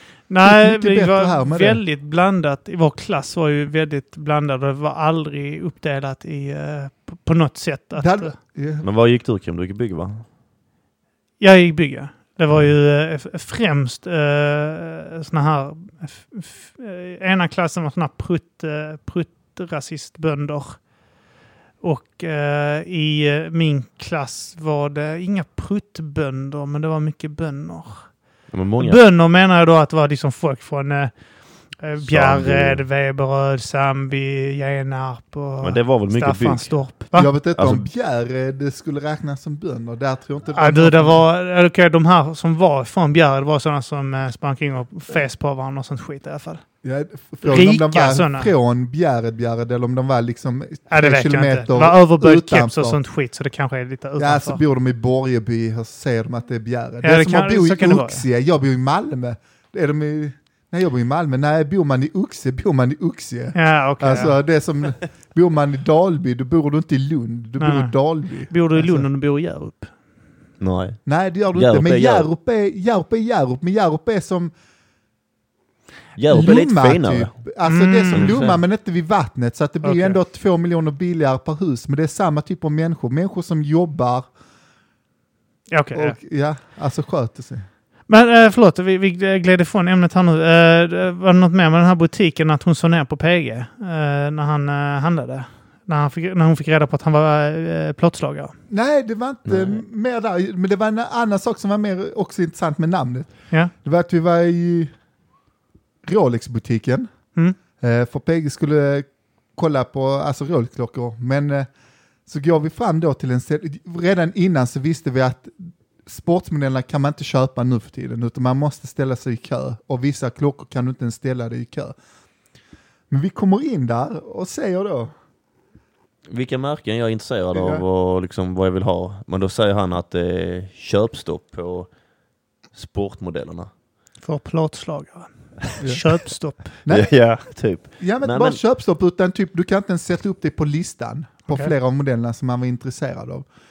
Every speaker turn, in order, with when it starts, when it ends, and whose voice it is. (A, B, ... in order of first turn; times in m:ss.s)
0:00.3-0:08.3 A
0:00.4-0:01.8 B
0:08.0-0:08.8 B
0:08.8-0:10.2 C
0:11.4-0:20.8 A
0:21.8-0:28.1 A
0:28.5-0:29.0 C
0:28.8-0:31.1 A
0:31.8-0:37.3 A
0:32.0-0:32.8 C
0:35.6-0:36.7 C
0:37.1-0:41.2 B
0:37.6-0:37.8 C
0:40.5-0:46.6 A
0:46.8-0:53.0 B
0:47.4-0:48.5 A
0:50.9-0:54.6 A
0:54.2-1:09.1 B
0:57.0-0:58.2 A
1:03.6-1:04.4 A
1:07.6-1:07.9 A
1:08.5-1:09.9 A
1:10.6-1:11.0 C
1:11.1-1:14.5 B
1:11.5-1:12.3 C
1:16.2-1:17.3 C
1:16.3-1:24.3 B
1:17.7-1:18.4 A
1:18.1-1:18.6 C
1:19.8-1:20.2 A
1:25.7-1:26.2 A
1:25.9-1:27.6 B
1:28.1-1:38.5 A
1:38.7-1:43.3 B
1:39.5-1:39.8 C
1:43.8-1:44.9 B
1:46.1-1:47.1 B
1:47.8-1:51.7 B
1:52.3-2:02.0 B
2:03.1-2:05.1 B
2:06.3-2:11.9 C
2:07.5-2:07.8 B
2:12.7-2:13.7 C
2:14.2-2:16.7 A
2:15.8-2:16.1 B
2:16.8-2:17.1 B
2:16.9-2:18.6 C
2:18.0-2:23.5 B